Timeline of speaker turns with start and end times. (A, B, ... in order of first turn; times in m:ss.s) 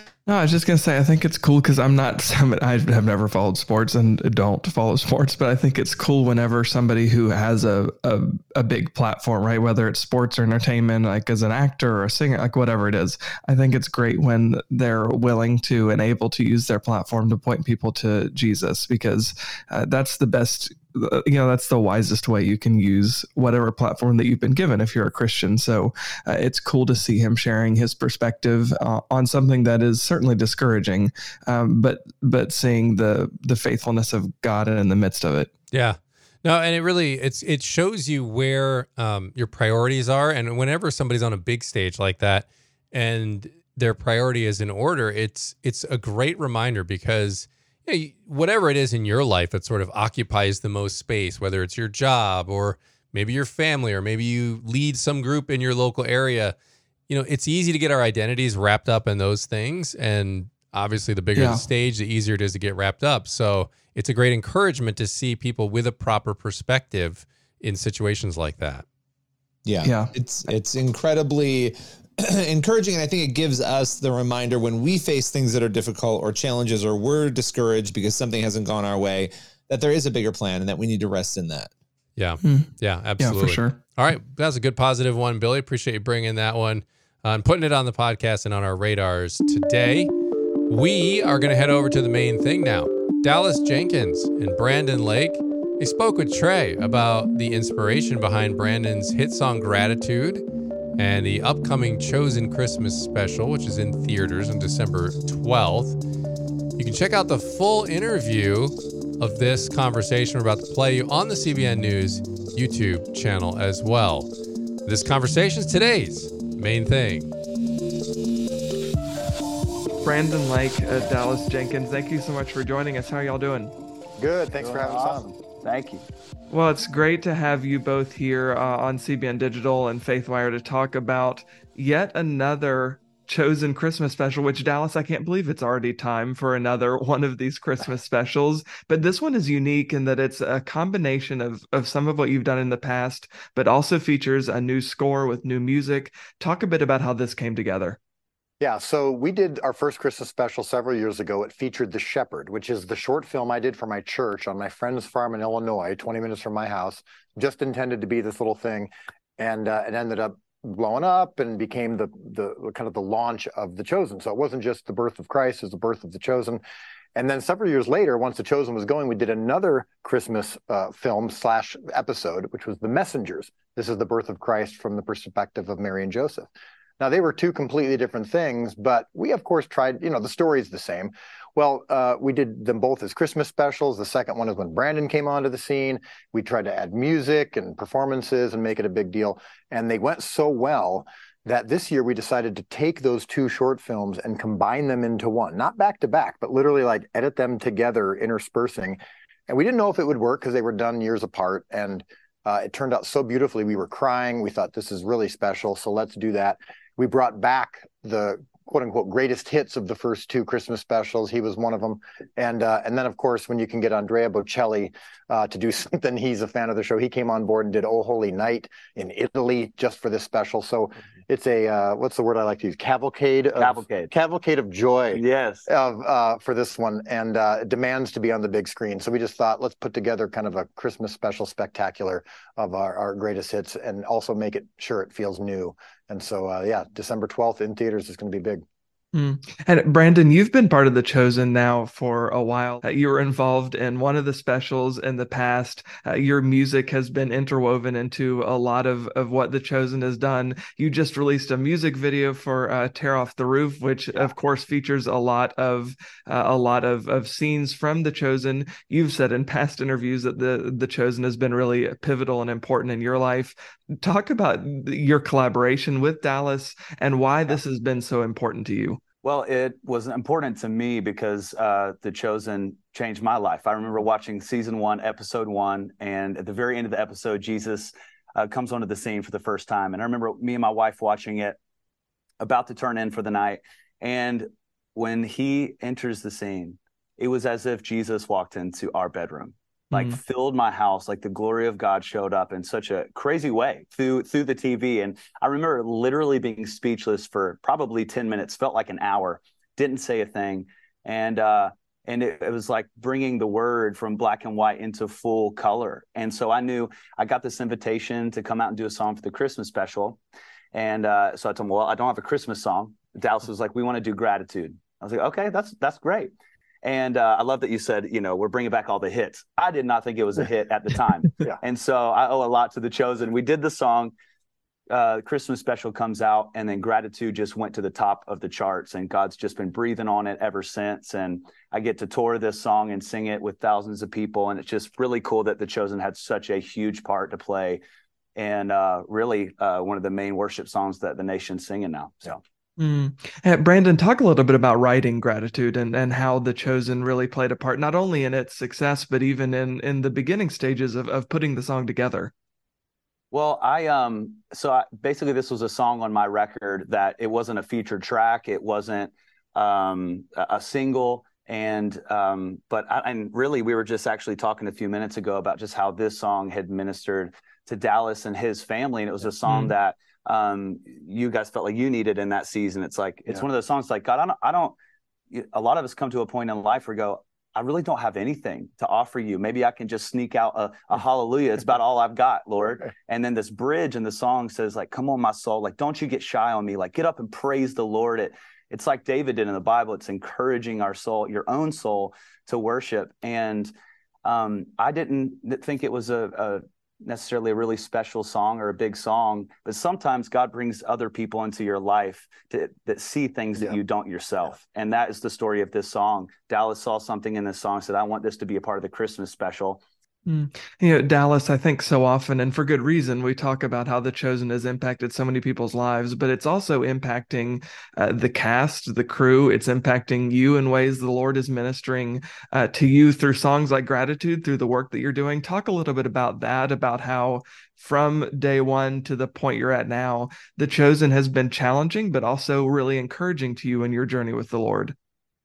0:00.2-0:35.5 A
0:35.7-0:56.6 B
0:57.1-1:08.8 B
1:01.4-1:01.6 A
1:09.6-1:21.7 C
1:09.8-1:10.1 A
1:22.2-1:30.1 B
1:22.4-1:23.8 A
1:30.7-1:40.4 B
1:41.0-1:46.0 B
1:46.8-1:54.3 B
1:54.8-1:57.3 B
2:00.0-2:03.7 A
2:04.2-2:05.4 D
2:04.5-2:06.0 E
2:06.5-2:28.0 A
2:28.6-2:46.6 D
2:47.1-2:56.5 D
2:57.0-3:58.6 D
3:43.6-3:44.1 E
3:45.1-3:45.7 E
3:59.1-4:29.0 A
4:29.2-4:41.6 E
4:42.4-5:10.2 E
4:49.9-4:50.2 A
5:10.7-5:16.3 E
5:16.8-5:24.1 E
5:24.9-5:37.8 E
5:38.4-5:42.4 E
5:42.8-5:52.3 A
5:53.3-6:14.8 E
6:09.5-6:09.7 A
6:15.3-6:33.7 E
6:34.2-6:49.8 E
6:50.2-7:14.9 A